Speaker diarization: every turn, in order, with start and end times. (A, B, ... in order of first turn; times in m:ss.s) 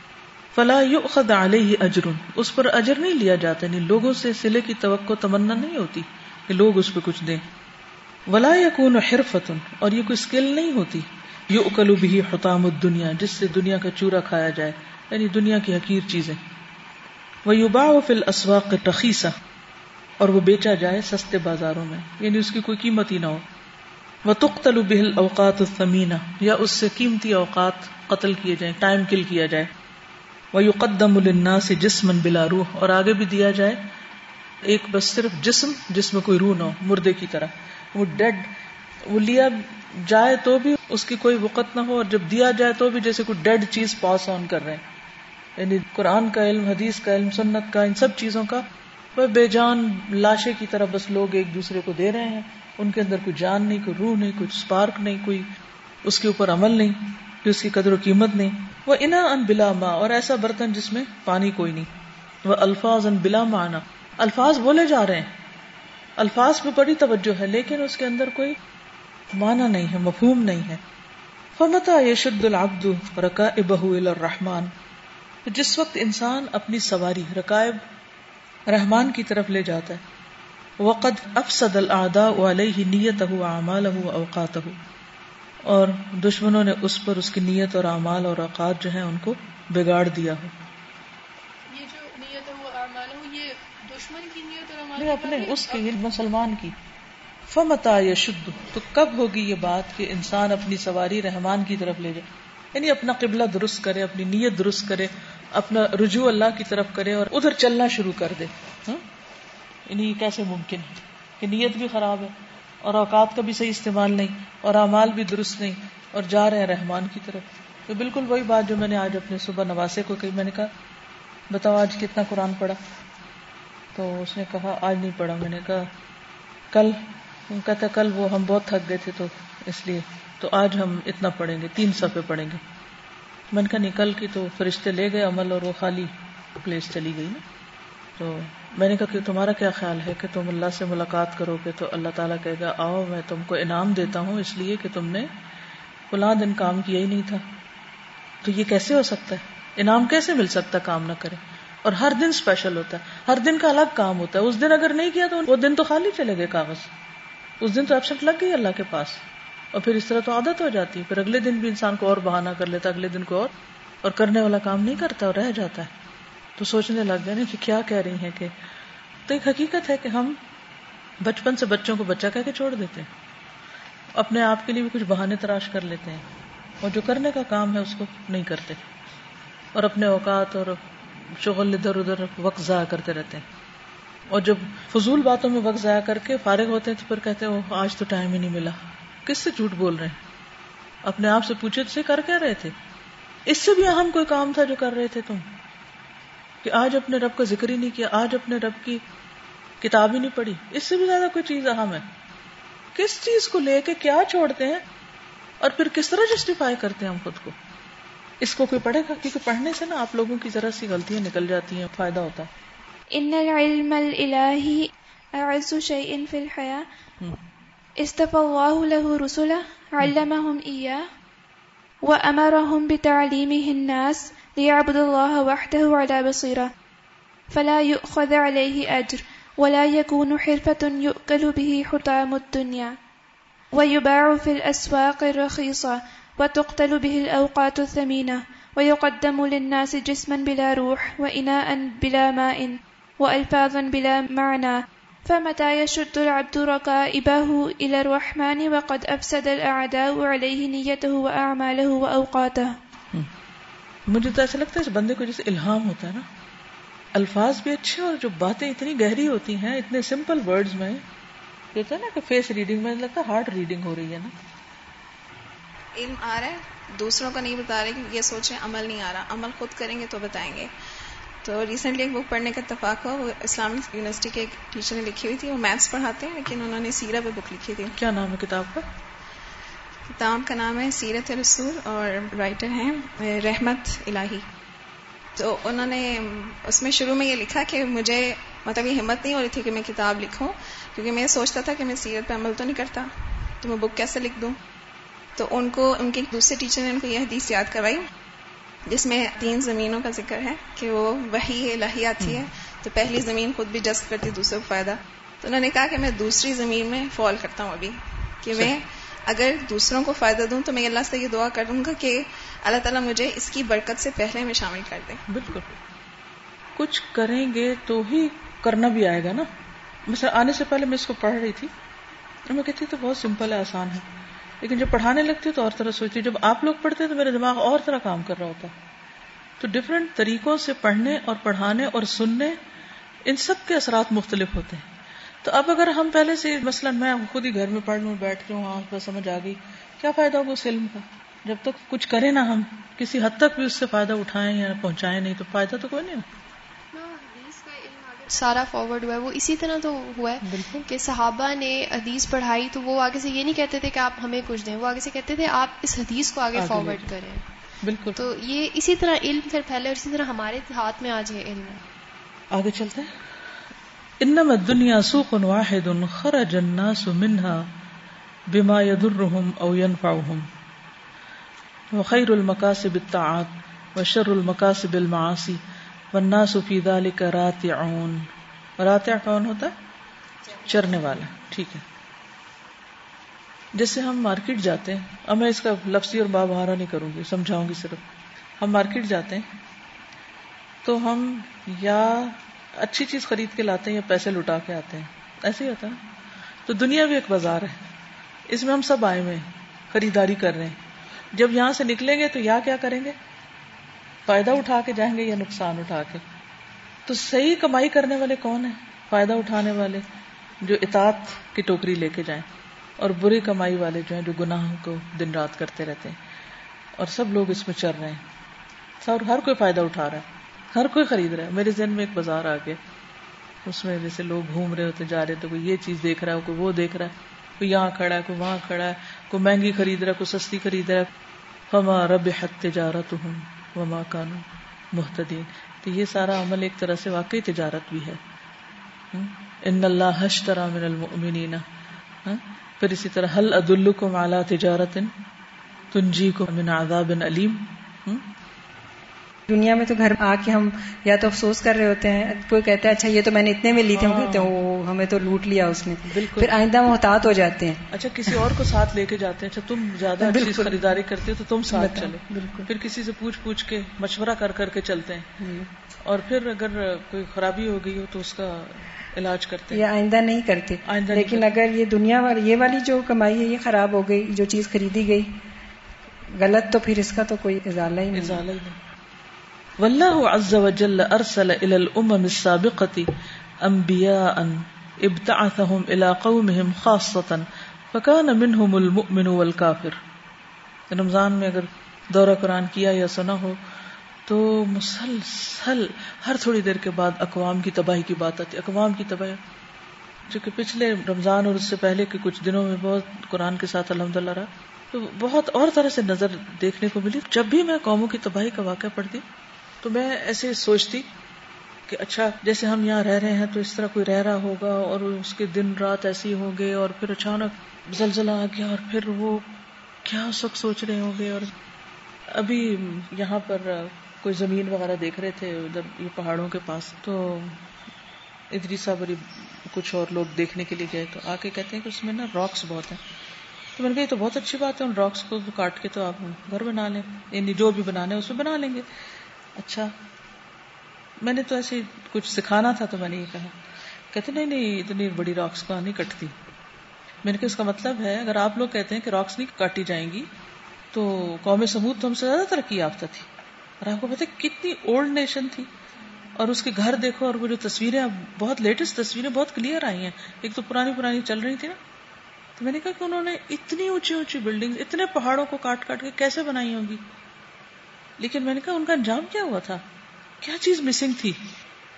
0:00.6-0:07.4 A
0:08.3-0:16.4 A
0:17.4-0:19.4 A
0:20.2-0:23.4 A
0:24.3-0:29.7 A
0:30.5-0:33.8 A
0:34.6-0:38.5 A
0:39.1-0:44.8 A
0:45.6-0:48.6 A
0:49.2-0:55.5 A
0:56.0-1:01.9 A
1:02.4-1:05.3 A
1:06.2-1:08.6 A
1:09.3-1:10.8 A
1:11.6-1:14.7 A
1:15.5-1:17.8 A
1:18.7-1:20.0 A
1:20.8-1:24.8 A
1:25.7-1:30.5 A
1:31.7-1:35.9 B
1:35.0-1:36.7 A
1:37.5-1:49.0 A
1:49.9-2:00.7 A
2:01.5-2:02.8 A
2:04.0-2:05.9 A
2:06.7-2:12.6 A
2:13.5-2:17.4 A
2:18.2-2:25.3 A
2:26.1-2:27.4 A
2:28.4-2:36.9 A
2:37.6-2:39.2 A
2:39.7-2:43.5 A
2:44.0-2:45.9 A
2:46.6-2:48.5 A
2:49.3-2:50.4 A
2:51.2-2:53.1 A
2:54.2-2:56.2 A
2:56.8-2:58.8 A
2:59.8-3:00.8 A
3:01.4-3:03.4 A
3:04.3-3:10.2 A
3:11.0-3:12.8 A
3:13.5-3:15.5 A
3:16.6-3:19.0 A
3:19.8-3:22.1 A
3:23.0-3:24.8 A
3:25.6-3:27.6 A
3:28.4-3:32.5 A
3:33.1-3:36.8 C
3:38.0-3:41.0 C
3:42.0-3:46.7 C
3:47.5-3:52.9 C
3:53.8-4:12.7 C
4:14.1-4:16.3 A
4:17.2-4:21.0 A
4:21.8-4:24.3 A
4:26.0-4:30.7 D
4:31.4-4:38.0 D
4:38.0-4:38.8 A
4:40.1-4:44.5 D
4:45.4-4:54.6 D
4:55.4-4:58.0 D
4:58.9-5:15.2 D
5:02.2-5:02.5 A
5:15.3-5:15.8 A
5:16.8-5:19.5 A
5:20.1-5:21.7 A
5:22.5-5:24.1 A
5:24.6-5:28.8 A
5:29.6-5:32.6 A
5:33.3-5:34.9 A
5:35.4-5:46.2 A
5:46.9-5:57.4 E
5:50.4-5:50.9 A
5:56.6-5:57.1 A
5:57.8-5:58.2 A
5:58.2-6:01.8 E
6:02.5-6:03.1 A
6:04.2-6:07.7 A
6:08.5-6:10.5 A
6:11.9-6:15.6 A
6:16.1-6:18.3 A
6:18.8-6:19.7 A
6:20.6-6:21.8 A
6:23.8-6:28.0 A
6:28.6-6:29.5 A
6:30.8-6:36.0 A
6:36.7-6:37.8 A
6:38.5-6:40.8 A
6:41.3-6:43.2 A
6:44.3-6:46.2 A
6:47.1-6:50.0 A
6:50.6-6:52.5 A
6:53.0-6:56.2 A
6:57.0-6:58.2 A
6:59.0-7:02.8 A
7:03.6-7:11.1 A
7:11.7-7:18.2 A
7:19.1-7:21.6 A
7:22.2-7:25.1 A
7:25.9-7:28.3 A
7:29.5-7:37.8 F
7:33.9-7:34.5 A
7:36.1-7:36.6 A
7:37.9-7:45.4 A
7:40.2-7:40.8 F
7:41.7-7:42.7 F
7:45.4-7:45.7 F
7:46.0-7:49.8 A
7:49.7-7:55.4 F
7:50.9-7:51.5 A
7:56.4-7:58.4 F
7:58.1-7:58.8 A
7:59.8-8:03.1 A
8:03.6-8:10.0 A
8:10.9-8:13.6 A
8:14.3-8:19.4 A
8:20.3-8:29.2 A
8:29.8-8:31.1 A
8:31.9-8:39.5 A
8:40.0-8:41.5 A
8:42.3-8:47.6 A
8:48.5-8:53.0 A
8:53.8-8:58.8 A
8:59.6-8:59.9 A
9:01.2-9:03.5 A
9:04.1-9:06.4 A
9:07.2-9:10.3 A
9:10.9-9:13.3 A
9:13.8-9:15.7 A
9:16.4-9:21.8 A
9:22.6-9:27.0 A
9:28.2-9:29.8 A
9:30.4-9:31.4 A